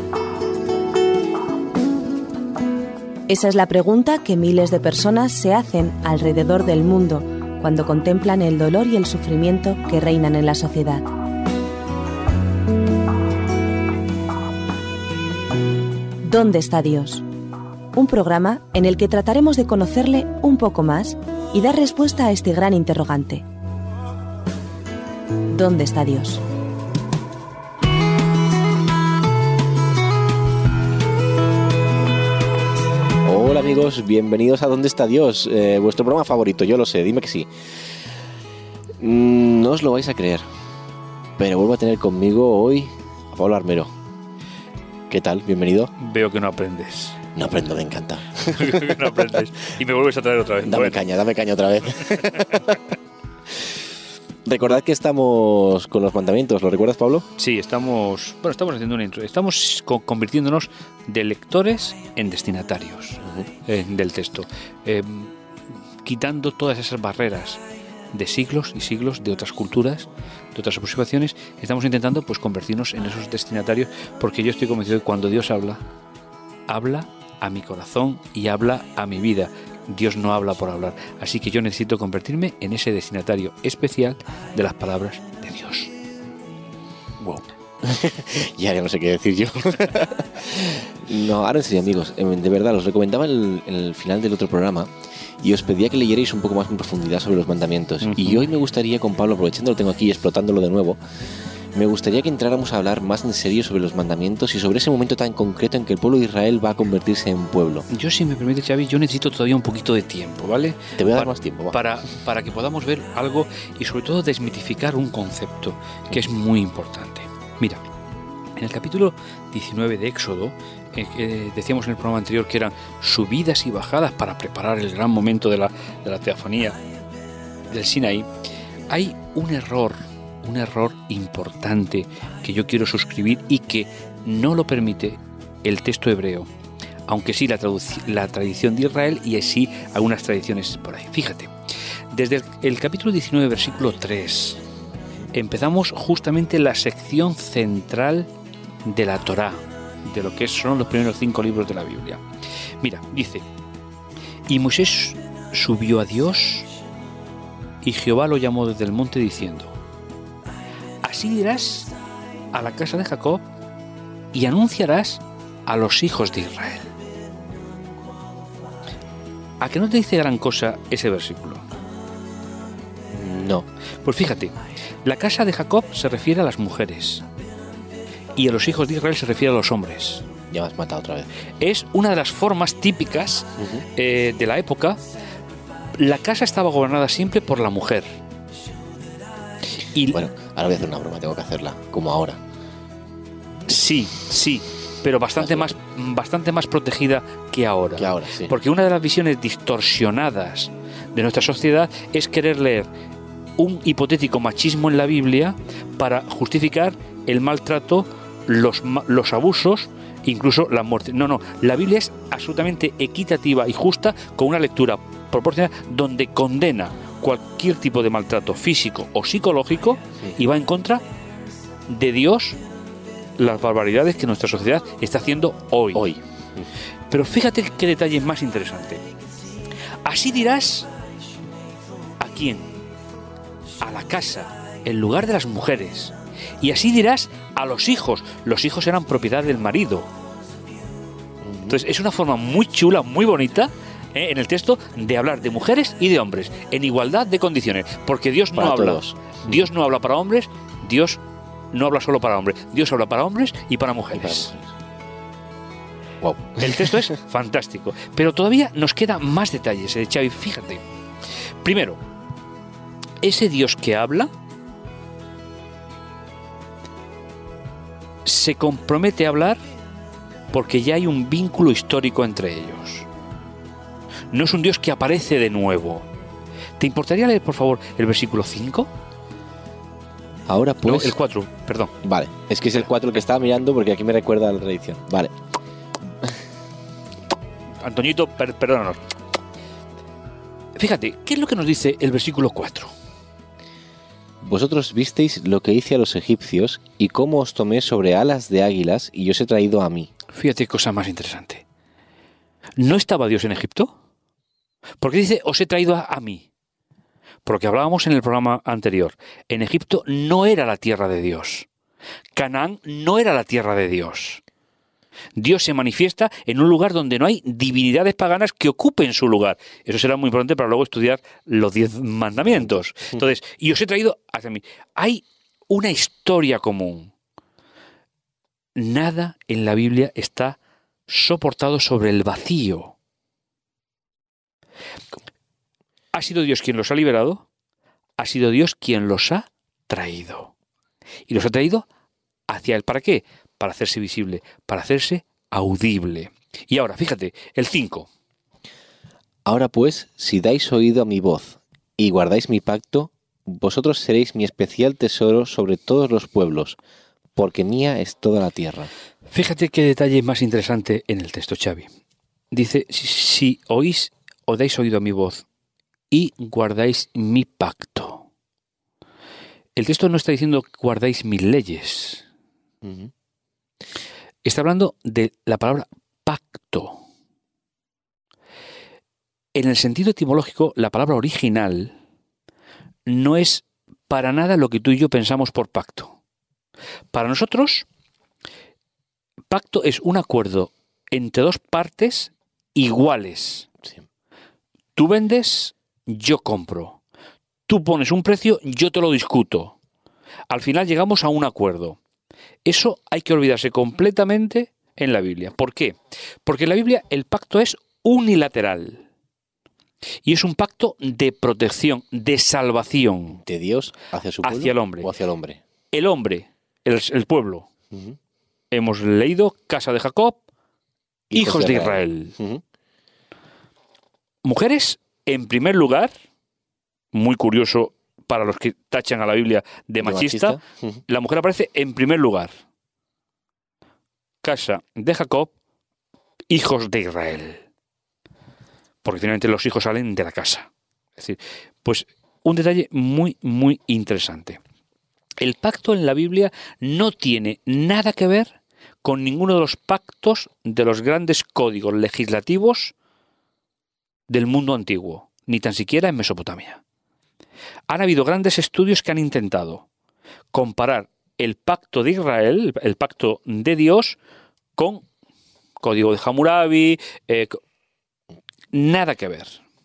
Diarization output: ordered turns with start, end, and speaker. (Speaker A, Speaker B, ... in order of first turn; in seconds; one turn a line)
Speaker A: 3.3-11.1
Speaker A: 16.2-17.2
Speaker A: 17.9-23.4
Speaker A: 25.5-26.4
Speaker B: 33.2-37.5
Speaker B: 39.0-40.5
Speaker B: 41.4-43.9
Speaker B: 45.1-45.9
Speaker C: 46.0-47.2
Speaker B: 47.4-49.2
Speaker C: 48.5-51.0
Speaker B: 50.6-52.9
Speaker B: 54.5-57.3
Speaker C: 57.4-65.3
Speaker C: 66.0-67.6
Speaker C: 68.1-75.8
Speaker C: 76.7-85.9
Speaker B: 87.2-101.0
Speaker C: 98.0-98.4
Speaker B: 101.8-107.8
Speaker C: 107.9-117.8
Speaker B: 111.0-111.8
Speaker C: 118.6-126.8
Speaker C: 127.7-128.3
Speaker C: 128.9-136.5
Speaker C: 137.1-141.5
Speaker C: 142.1-144.6
Speaker C: 145.3-148.3
Speaker C: 148.8-152.2
Speaker C: 152.8-153.4
Speaker C: 154.5-156.7
Speaker C: 157.8-159.7
Speaker C: 161.0-161.9
Speaker C: 162.5-163.4
Speaker C: 164.3-166.9
Speaker C: 169.6-171.7
Speaker B: 173.1-173.7
Speaker C: 174.0-177.2
Speaker C: 178.4-180.2
Speaker B: 180.5-181.3
Speaker C: 181.6-185.0
Speaker B: 183.6-183.9
Speaker C: 186.0-188.1
Speaker C: 189.9-190.2
Speaker B: 190.1-192.4
Speaker C: 193.7-202.9
Speaker B: 195.4-195.7
Speaker B: 198.0-198.5
Speaker C: 203.6-221.0
Speaker C: 221.9-222.6
Speaker C: 223.4-226.1
Speaker B: 225.9-226.7
Speaker C: 227.1-229.0
Speaker C: 230.0-230.9
Speaker C: 232.2-232.7
Speaker C: 233.8-240.1
Speaker B: 241.4-241.8
Speaker C: 241.7-251.2
Speaker B: 248.6-249.7
Speaker C: 251.7-254.5
Speaker B: 254.1-254.7
Speaker B: 256.2-257.1
Speaker C: 256.6-260.8
Speaker C: 261.6-262.0
Speaker C: 263.2-264.3
Speaker C: 268.2-269.6
Speaker C: 270.5-273.1
Speaker C: 274.3-276.1
Speaker C: 276.8-278.9
Speaker B: 280.5-281.2
Speaker C: 280.9-281.9
Speaker B: 282.0-285.3
Speaker C: 287.8-289.0
Speaker C: 290.8-292.9
Speaker B: 294.4-300.1
Speaker C: 300.3-301.6
Speaker C: 302.8-303.9
Speaker C: 305.0-306.5
Speaker C: 307.4-311.7
Speaker C: 312.3-314.4
Speaker C: 315.4-327.1
Speaker B: 322.5-322.8
Speaker C: 328.8-330.6
Speaker C: 331.1-332.9
Speaker C: 336.1-337.4
Speaker C: 338.2-340.5
Speaker C: 341.3-341.9
Speaker C: 342.5-348.1
Speaker B: 349.4-356.8
Speaker B: 357.4-358.9
Speaker C: 359.3-361.9
Speaker C: 362.5-365.4
Speaker C: 366.1-368.2
Speaker C: 369.8-372.2
Speaker B: 372.8-373.1
Speaker C: 374.4-377.0
Speaker C: 379.6-381.9
Speaker C: 383.1-386.1
Speaker C: 387.1-387.9
Speaker C: 389.5-393.7
Speaker C: 395.0-397.0
Speaker C: 397.7-399.8
Speaker C: 400.5-402.0
Speaker C: 402.6-409.0
Speaker C: 410.2-413.4
Speaker B: 413.4-415.6
Speaker C: 414.4-415.1
Speaker C: 415.9-417.7
Speaker C: 418.7-420.4
Speaker B: 421.3-422.6
Speaker C: 421.3-422.4
Speaker C: 424.4-426.1
Speaker C: 427.1-432.5
Speaker B: 430.0-431.0
Speaker C: 434.4-435.5
Speaker C: 436.5-437.6
Speaker C: 439.0-444.6
Speaker C: 445.4-448.5
Speaker C: 449.0-452.9
Speaker C: 454.3-456.8
Speaker C: 457.9-459.8
Speaker C: 460.5-464.2
Speaker C: 464.8-465.0
Speaker C: 465.8-467.6
Speaker C: 468.7-469.6